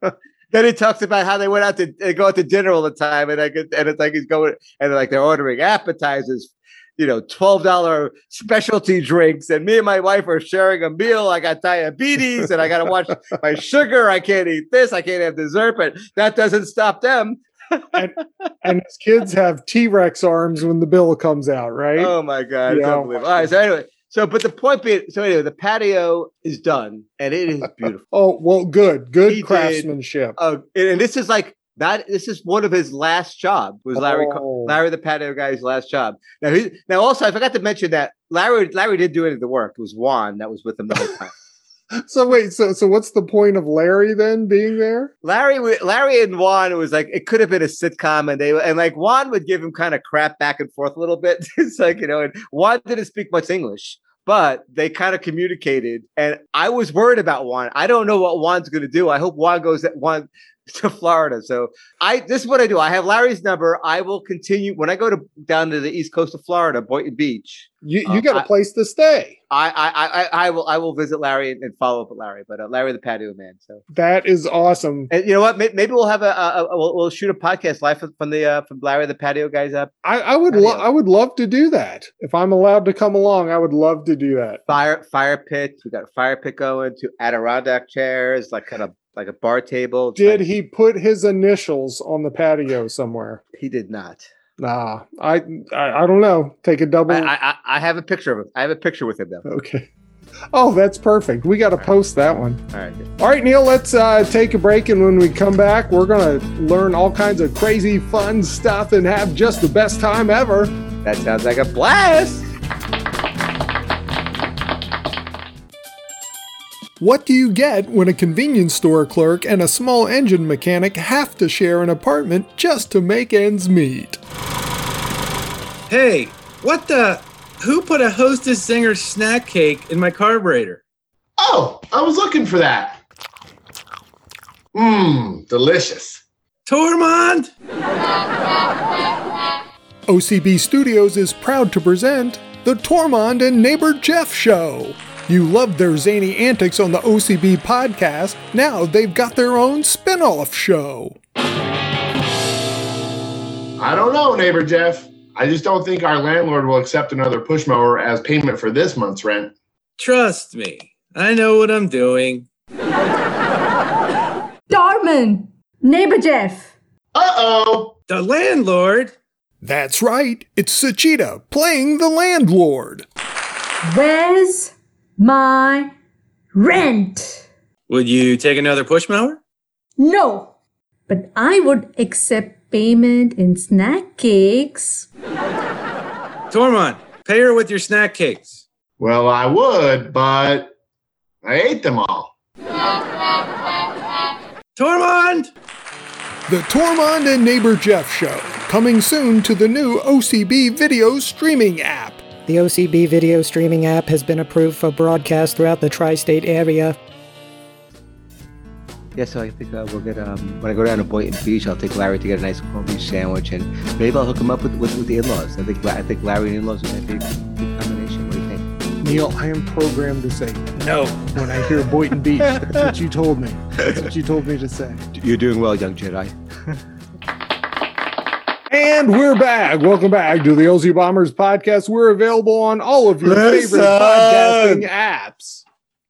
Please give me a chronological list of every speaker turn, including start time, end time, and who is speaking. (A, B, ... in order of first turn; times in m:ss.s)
0:00.5-0:17.8 A
0:17.9-0:22.1 B
0:22.0-0:28.0 A
0:22.7-0:23.2 B
0:28.1-0:30.4 B
0:29.3-0:41.3 A
0:34.0-0:34.8 B
0:42.0-0:45.1 B
0:45.2-1:08.5 A
1:07.8-1:09.4 B
1:09.5-1:13.8 A
1:13.9-1:15.1 B
1:15.1-1:19.9 A
1:20.0-1:24.6 B
1:20.5-1:20.8 A
1:24.7-1:30.5 A
1:30.2-1:33.4 B
1:33.5-1:34.2 A
1:34.6-1:37.3 B
1:37.1-1:39.4 A
1:39.4-1:39.9 B
1:40.5-1:42.6 B
1:42.7-1:43.1 A
1:43.2-1:50.7 B
1:51.0-1:52.5 A
1:57.0-2:04.2 B
2:05.9-2:10.8 C
2:11.4-2:13.0 D
2:14.7-2:16.2 D
2:16.7-2:17.5 C
2:20.1-2:31.2 B
2:33.8-2:39.5 D
2:40.0-2:42.5 C
2:44.7-2:46.7 E
2:47.2-2:48.0 D
2:48.1-2:49.1 C
2:49.6-2:53.1 B
2:53.8-2:55.9 E
2:56.5-2:57.5 E
2:57.9-2:59.4 C
3:00.0-3:00.5 E
3:01.1-3:05.1 E
3:06.5-3:08.6 C
3:09.0-3:10.7 D
3:11.4-3:12.3 D
3:14.8-3:15.5 C
3:16.5-3:22.2 B
3:22.5-3:27.0 F
3:29.2-3:38.7 A
3:39.0-3:45.0 B
3:42.6-3:42.9 A
3:45.1-3:46.8 A
3:48.7-3:55.6 B
3:53.2-3:54.9 A